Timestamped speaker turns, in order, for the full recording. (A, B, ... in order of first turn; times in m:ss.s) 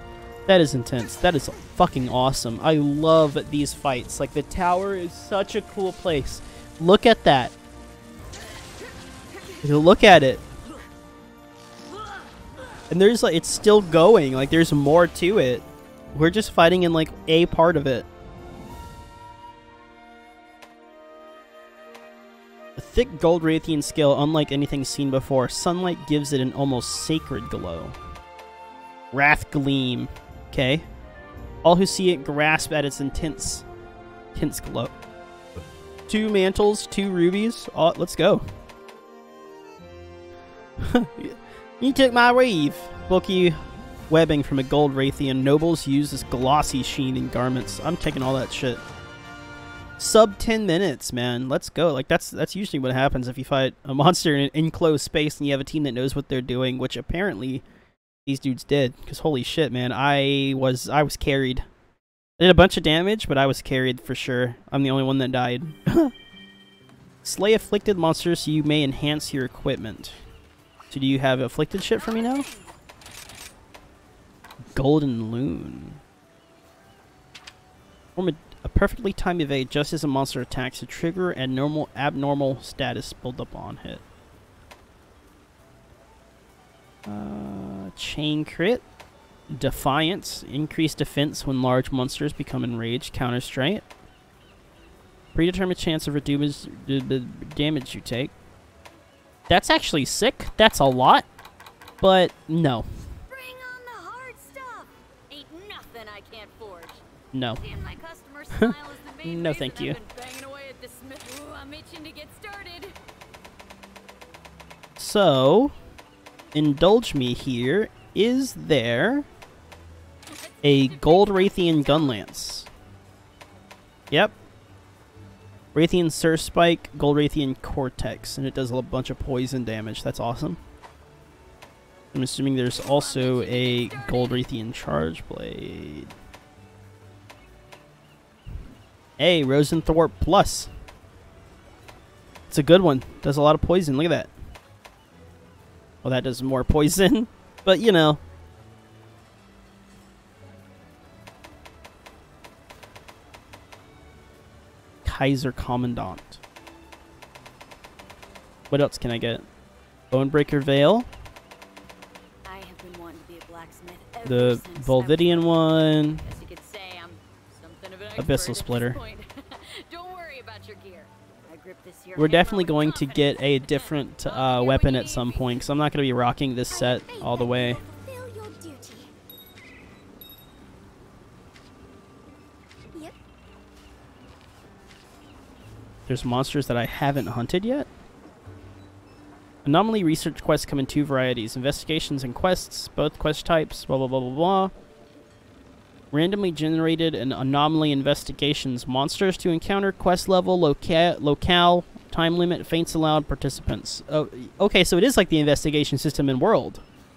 0:00.5-0:07.5 A
0:09.6-0:10.4 A
0:12.9-0:18.1 A
0:22.8-0:28.0 A
0:29.1-0:30.8 A
0:31.6-0:33.6 A
0:34.4-0:34.9 A
0:36.1-0:38.4 A
0:40.8-0:48.8 A
0:50.0-0:57.6 A
0:58.3-1:01.6 A
1:02.4-1:06.1 A
1:07.2-1:10.2 A
1:10.9-1:12.5 A
1:11.9-1:12.8 B
1:14.8-1:16.0 A
1:18.2-1:24.0 A
1:27.1-1:28.8 A
1:29.5-1:33.8 A
1:35.3-1:38.3 A
1:39.5-1:41.3 A
1:42.0-1:42.9 A
1:43.3-1:53.0 B
1:47.3-1:47.6 A
1:48.5-1:50.0 A
1:55.0-1:55.8 A
1:56.5-1:59.3 A
2:00.3-2:02.3 B
2:00.6-2:02.7 A
2:05.7-2:10.6 A
2:12.1-2:16.1 A
2:12.7-2:14.5 B
2:19.2-2:20.7 A
2:22.5-2:24.3 A
2:26.0-2:28.2 A
2:35.0-2:36.4 A
2:38.7-2:39.5 A
2:40.1-2:41.1 A
2:42.4-2:45.6 B
2:44.2-2:46.3 A
2:46.2-2:55.6 B
2:48.2-2:49.0 A
2:52.2-2:57.8 A
2:56.7-2:59.1 C
3:06.1-3:07.9 A
3:09.6-3:14.7 A
3:16.1-3:26.8 A